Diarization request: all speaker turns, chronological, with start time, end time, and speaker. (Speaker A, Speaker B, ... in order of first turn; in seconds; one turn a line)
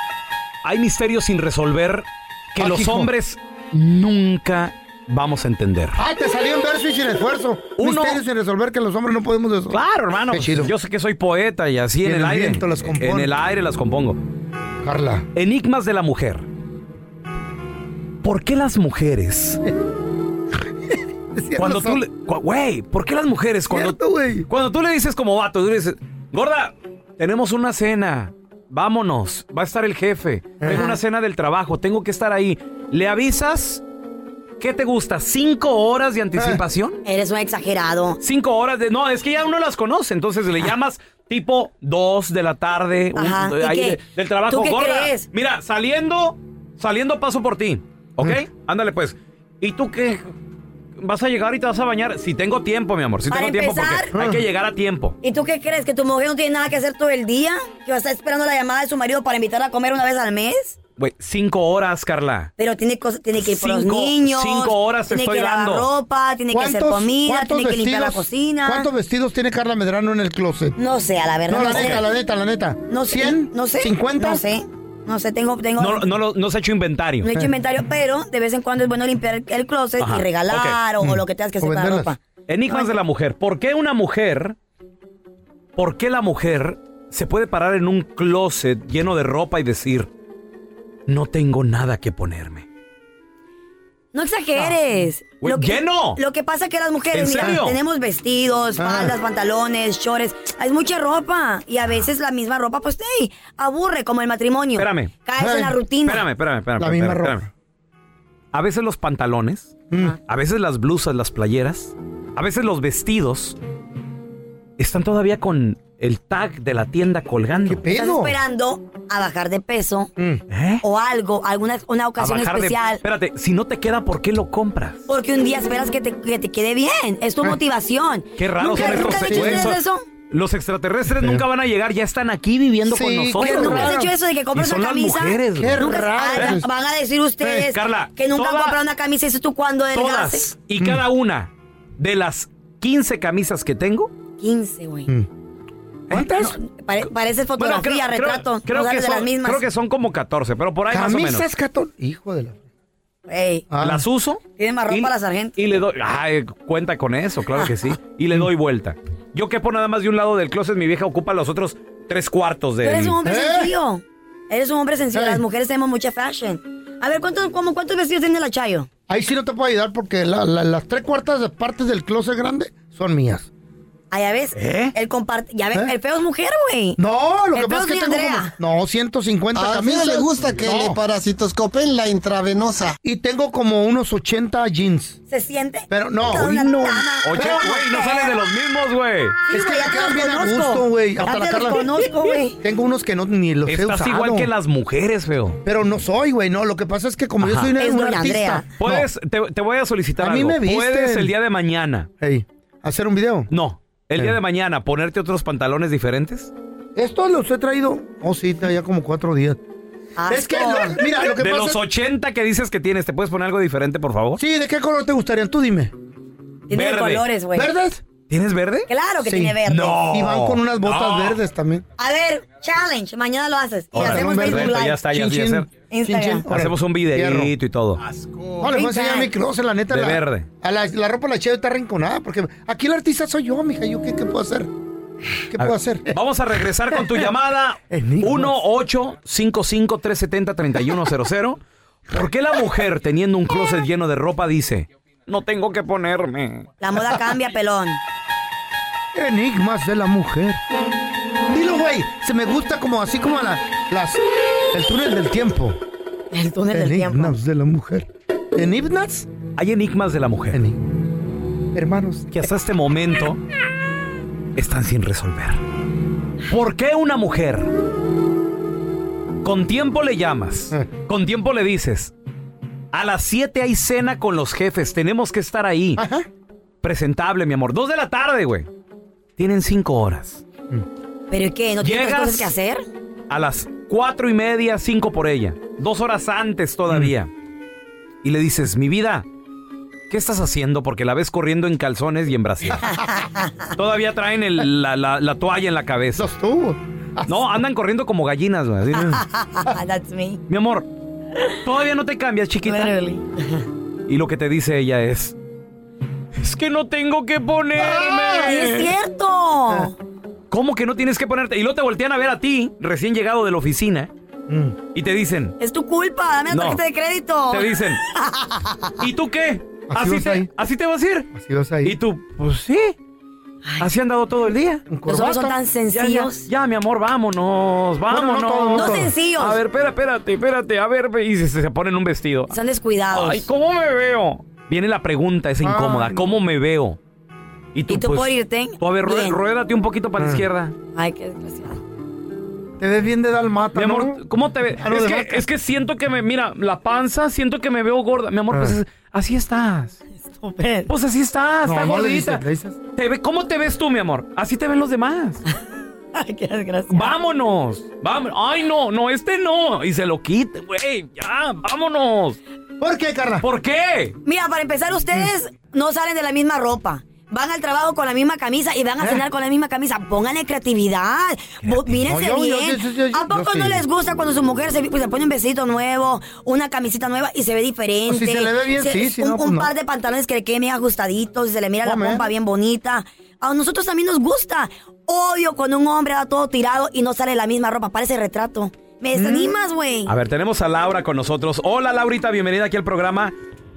Speaker A: 0.6-6.0
Speaker B: 2.6-3.1
Speaker B: 6.0-10.7
Speaker A: 7.8-8.2
Speaker A: 9.7-14.2
Speaker B: 12.0-13.3
Speaker B: 14.8-15.3
Speaker A: 15.3-16.4
Speaker A: 18.2-19.6
Speaker B: 21.3-22.0
Speaker A: 21.6-33.8
Speaker B: 23.7-24.5
Speaker B: 30.6-30.9
Speaker C: 30.7-31.0
Speaker A: 34.6-37.0
Speaker B: 36.4-36.6
Speaker C: 37.0-38.2
Speaker A: 38.2-50.3
Speaker C: 43.1-45.3
Speaker A: 51.0-55.2
Speaker C: 53.3-54.1
Speaker B: 54.1-54.4
Speaker C: 55.2-60.8
Speaker A: 61.0-62.5
Speaker C: 62.6-68.9
Speaker A: 63.4-65.9
Speaker B: 66.5-70.8
Speaker C: 70.8-72.0
Speaker B: 71.5-74.4
Speaker A: 71.6-72.0
Speaker C: 72.9-76.1
Speaker A: 75.8-77.3
Speaker C: 77.2-83.0
Speaker A: 80.0-80.8
Speaker B: 81.0-82.1
Speaker A: 82.5-84.6
Speaker A: 85.8-90.1
Speaker A: 91.1-92.7
Speaker C: 94.1-106.3
Speaker A: 95.4-96.2
Speaker A: 97.1-97.8
Speaker B: 98.8-99.2
Speaker A: 104.8-105.1
Speaker B: 105.4-105.8
Speaker A: 106.0-107.5
Speaker B: 106.8-107.5
Speaker A: 108.5-113.6
Speaker B: 109.9-110.2
Speaker A: 114.8-117.8
Speaker B: 117.7-118.4
Speaker C: 117.9-120.1
Speaker B: 120.2-120.4
Speaker A: 120.5-120.8
Speaker C: 120.8-123.0
Speaker A: 122.2-125.1
Speaker C: 125.1-130.1
Speaker A: 128.4-129.8
Speaker B: 128.7-129.8
Speaker A: 130.3-133.9
Speaker B: 131.1-131.4
Speaker B: 132.9-134.1
Speaker C: 133.4-140.4
Speaker A: 134.6-136.6
Speaker B: 135.6-136.7
Speaker B: 137.4-137.7
Speaker A: 137.5-138.8
Speaker A: 139.9-144.1
Speaker B: 140.8-141.0
Speaker C: 144.4-145.1
Speaker B: 146.1-146.6
Speaker C: 146.3-149.7
Speaker A: 147.6-151.5
Speaker B: 150.9-152.6
Speaker C: 153.3-153.7
Speaker B: 153.7-154.1
Speaker A: 153.8-163.2
Speaker C: 154.6-155.6
Speaker C: 162.8-168.9
Speaker B: 163.2-163.8
Speaker B: 165.1-165.4
Speaker B: 169.1-173.5
Speaker C: 174.1-177.0
Speaker A: 174.6-174.9
Speaker B: 177.0-181.0
Speaker C: 177.6-178.5
Speaker D: 179.5-183.0
Speaker B: 183.0-185.2
Speaker C: 185.3-188.4
Speaker B: 185.9-187.7
Speaker A: 187.2-189.4
Speaker C: 189.5-192.6
Speaker B: 189.5-191.9
Speaker B: 192.6-194.5
Speaker A: 193.7-195.6
Speaker B: 195.7-199.1
Speaker A: 197.4-197.7
Speaker C: 197.8-198.7
Speaker A: 198.8-202.1
Speaker B: 200.2-201.3
Speaker B: 202.2-203.5
Speaker A: 203.5-206.5
Speaker B: 207.0-209.6
Speaker C: 210.2-211.1
Speaker B: 210.3-211.8
Speaker A: 211.2-214.4
Speaker B: 214.4-215.9
Speaker C: 216.7-217.7
Speaker A: 216.7-217.3
Speaker B: 217.5-218.0
Speaker A: 218.3-218.9
Speaker C: 218.9-220.1
Speaker B: 219.2-221.8
Speaker A: 219.7-221.4
Speaker C: 222.0-225.0
Speaker A: 223.9-225.7
Speaker B: 223.9-227.5
Speaker C: 225.9-226.5
Speaker A: 226.5-228.0
Speaker B: 228.6-234.7
Speaker C: 228.6-229.3
Speaker A: 229.9-230.5
Speaker B: 235.5-236.1
Speaker A: 235.6-246.7
Speaker B: 236.9-237.2
Speaker B: 237.9-238.6
Speaker C: 246.8-248.0
Speaker B: 249.1-250.6
Speaker B: 251.5-255.8
Speaker C: 256.3-257.4
Speaker B: 256.7-259.3
Speaker A: 259.6-260.6
Speaker B: 260.5-260.8
Speaker B: 261.7-262.5
Speaker A: 262.3-263.4
Speaker A: 264.6-265.6
Speaker A: 266.5-267.7
Speaker A: 269.4-272.1
Speaker A: 272.9-276.0
Speaker B: 276.0-276.3
Speaker A: 276.8-278.7
Speaker A: 279.4-280.4
Speaker C: 281.3-282.8
Speaker A: 281.8-282.5
Speaker A: 283.3-287.3
Speaker A: 288.2-289.3
Speaker A: 290.1-292.9
Speaker C: 292.8-293.7
Speaker A: 293.8-296.3
Speaker B: 296.2-297.4
Speaker A: 297.3-299.2
Speaker C: 299.0-300.4
Speaker A: 300.5-300.9
Speaker A: 301.6-302.9
Speaker C: 302.6-303.7
Speaker A: 304.1-305.4
Speaker A: 306.4-308.9
Speaker B: 307.8-308.3
Speaker C: 308.3-309.9
Speaker A: 310.5-314.1
Speaker B: 314.5-314.8
Speaker A: 314.9-315.6
Speaker C: 315.6-319.0
Speaker A: 316.5-316.8
Speaker A: 317.5-318.0
Speaker A: 319.0-321.3
Speaker B: 319.9-320.5
Speaker B: 321.3-322.0
Speaker A: 321.8-323.0
Speaker A: 323.8-324.9
Speaker B: 324.9-325.6
Speaker C: 325.1-326.5
Speaker A: 325.9-332.6
Speaker B: 328.1-329.1
Speaker C: 328.7-329.6
Speaker C: 332.5-333.5
Speaker A: 333.1-337.0
Speaker B: 335.6-336.2
Speaker A: 337.7-340.8
Speaker C: 337.9-339.4
Speaker B: 340.2-340.4
Speaker C: 340.9-341.8
Speaker B: 342.8-344.2
Speaker A: 343.8-350.0
Speaker B: 344.7-345.5
Speaker B: 348.5-348.8
Speaker C: 350.2-350.9
Speaker A: 350.9-352.4
Speaker B: 351.6-352.8
Speaker A: 353.0-355.4
Speaker C: 356.1-357.1
Speaker A: 356.9-362.4
Speaker B: 362.8-363.4
Speaker A: 363.4-364.2
Speaker C: 364.2-390.1
Speaker B: 369.0-369.3
Speaker A: 371.6-372.0
Speaker B: 372.0-373.9
Speaker B: 378.1-379.7
Speaker B: 381.8-382.3
Speaker B: 389.1-389.6
Speaker A: 390.1-393.4